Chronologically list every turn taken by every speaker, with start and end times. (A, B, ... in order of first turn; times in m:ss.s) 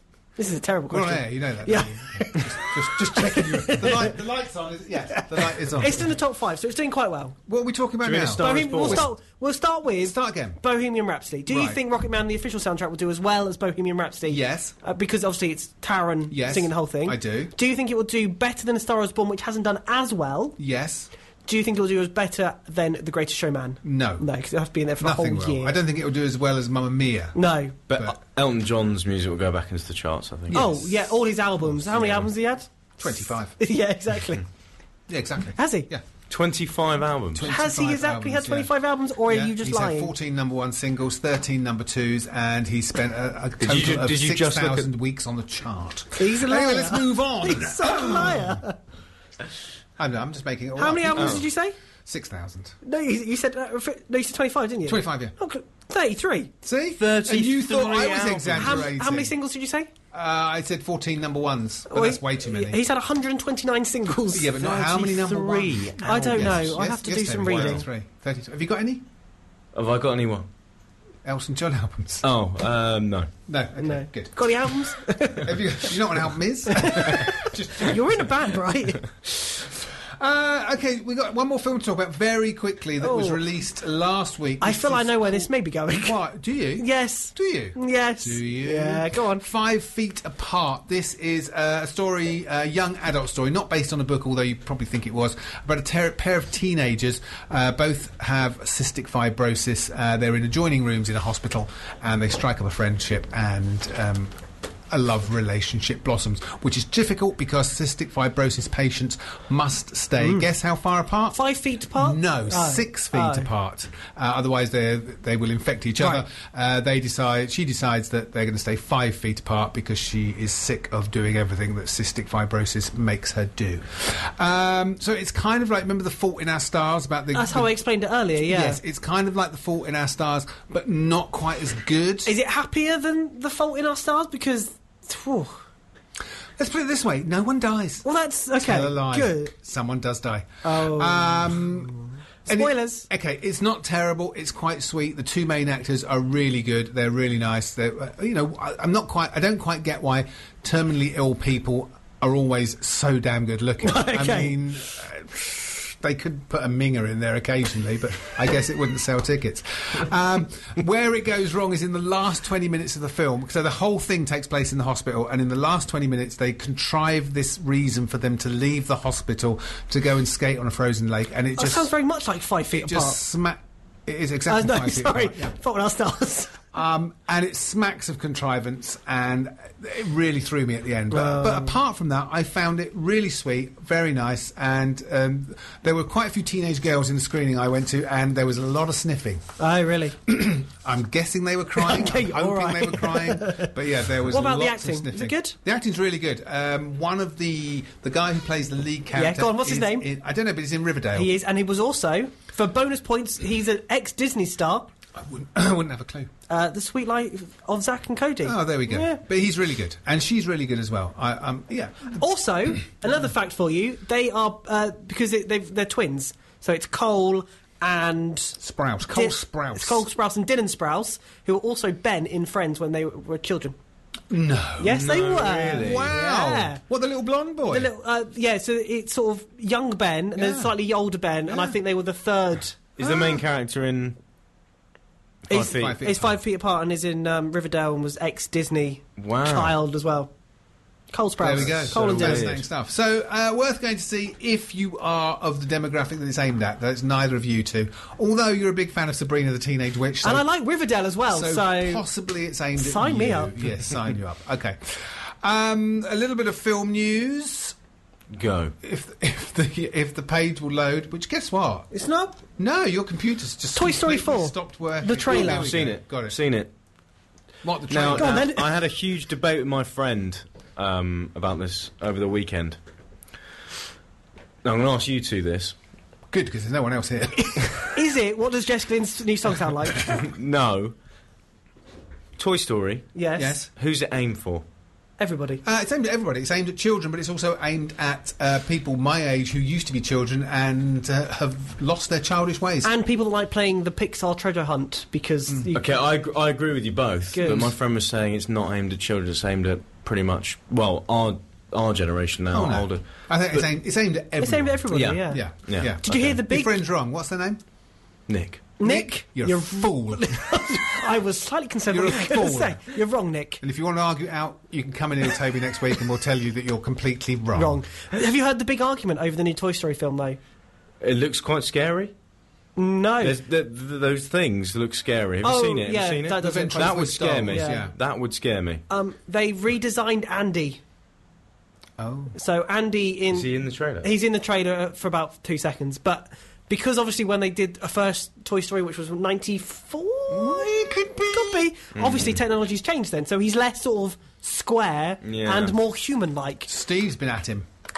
0:00.4-0:04.2 A
0:00.9-0:06.1 B
0:05.2-0:07.4 A
0:07.5-0:09.1 B
0:08.0-0:09.1 C
0:08.4-0:20.6 A
0:10.0-0:10.6 B
0:11.5-0:11.8 B
0:14.3-0:14.8 B
0:16.3-0:17.5 B
0:20.6-0:21.1 B
0:21.5-0:25.8 A
0:23.8-0:24.3 B
0:25.0-0:27.4 B
0:27.4-0:27.8 A
0:27.9-0:30.6 C
0:27.9-0:28.2 B
0:30.5-0:31.0 B
0:30.5-0:34.4 A
0:33.0-0:33.5 B
0:35.1-0:36.0 B
0:35.6-0:35.9 A
0:36.3-0:37.5 C
0:37.4-0:38.7 B
0:37.5-0:40.1 A
0:39.3-0:48.6 B
0:43.6-0:44.9 C
0:46.2-0:48.8 A
0:50.0-0:51.5 B
0:50.8-0:51.8 A
0:52.0-0:52.8 B
0:52.8-0:56.5 A
0:54.8-0:55.3 B
0:56.6-0:59.4 B
0:57.0-0:58.9 C
0:57.3-0:57.8 A
0:58.5-0:59.9 A
1:00.1-1:02.8 B
1:01.9-1:04.7 A
1:04.2-1:09.0 B
1:04.6-1:06.5 C
1:06.0-1:07.9 A
1:07.5-1:07.8 C
1:09.7-1:10.5 C
1:11.2-1:12.3 B
1:12.2-1:13.3 C
1:13.5-1:18.2 B
1:13.8-1:16.0 A
1:16.7-1:19.6 A
1:20.2-1:25.5 B
1:23.0-1:23.4 A
1:24.6-1:26.2 A
1:26.0-1:44.3 B
1:26.8-1:29.4 A
1:44.9-1:51.4 B
1:51.3-1:53.5 A
1:52.0-2:07.7 B
2:07.3-2:08.8 A
2:08.4-2:12.4 B
2:12.3-2:15.6 A
2:16.6-2:18.0 B
2:18.0-2:19.5 A
2:18.6-2:22.0 B
2:20.6-2:21.9 A
2:22.5-2:23.1 A
2:22.5-2:51.9 B
2:33.8-2:34.6 A
2:51.6-2:53.2 A
2:52.7-2:55.6 B
2:54.5-2:56.6 A
2:56.7-3:09.5 B
3:01.1-3:01.8 A
3:09.6-3:10.2 A
3:10.2-3:21.4 B
3:11.8-3:15.6 A
3:19.1-3:20.1 A
3:21.1-3:24.9 A
3:25.2-3:26.3 B
3:26.5-3:29.2 A
3:28.4-3:32.2 B
3:32.2-3:43.8 A
3:38.6-3:40.0 B
3:44.3-3:45.0 B
3:44.8-3:46.8 A
3:44.8-3:46.1 C
3:45.7-3:47.9 B
3:47.7-3:53.4 A
3:50.4-3:50.7 B
3:51.5-3:51.8 B
3:53.0-3:54.2 C
3:55.5-3:56.0 C
3:55.5-4:00.3 A
3:55.5-3:56.4 B
3:59.2-3:59.8 C
4:01.1-4:02.5 A
4:01.4-4:10.5 B
4:01.5-4:02.6 C
4:10.2-4:12.0 A
4:11.3-4:17.8 B
4:12.8-4:13.9 A
4:18.3-4:18.7 C
4:18.8-4:21.9 B
4:21.9-4:22.4 A
4:22.6-4:26.4 B
4:23.7-4:25.7 A
4:25.3-4:26.7 C
4:27.6-4:28.5 B
4:27.9-4:32.8 C
4:28.2-4:28.7 A
4:34.6-4:35.8 C
4:36.3-4:37.9 B
4:37.8-4:40.2 A
4:40.0-4:41.0 C
4:42.4-4:43.1 C
4:43.2-4:43.6 A
4:43.4-4:43.7 B
4:43.7-4:44.6 C
4:45.2-4:45.6 A
4:45.6-4:52.9 B
4:52.8-4:55.8 A
4:55.5-4:55.8 B
4:55.7-5:03.6 C
4:57.3-4:57.7 A
5:02.5-5:07.6 B
5:04.4-5:05.4 A
5:04.9-5:06.4 C
5:06.0-5:06.8 A
5:08.3-5:08.7 C
5:08.8-5:13.6 A
5:08.8-5:10.8 B
5:11.9-5:12.9 B
5:13.6-5:17.8 B
5:17.6-5:20.4 A
5:21.0-5:22.1 C
5:22.8-5:23.4 A
5:23.2-5:28.8 C
5:25.4-5:27.9 A
5:26.4-5:27.9 B
5:28.9-5:30.8 A
5:32.0-5:32.4 B
5:32.4-5:46.7 A
5:33.3-5:34.1 C
5:40.3-5:41.6 B
5:42.0-5:42.4 C
5:45.2-5:45.8 C
5:46.7-5:47.7 B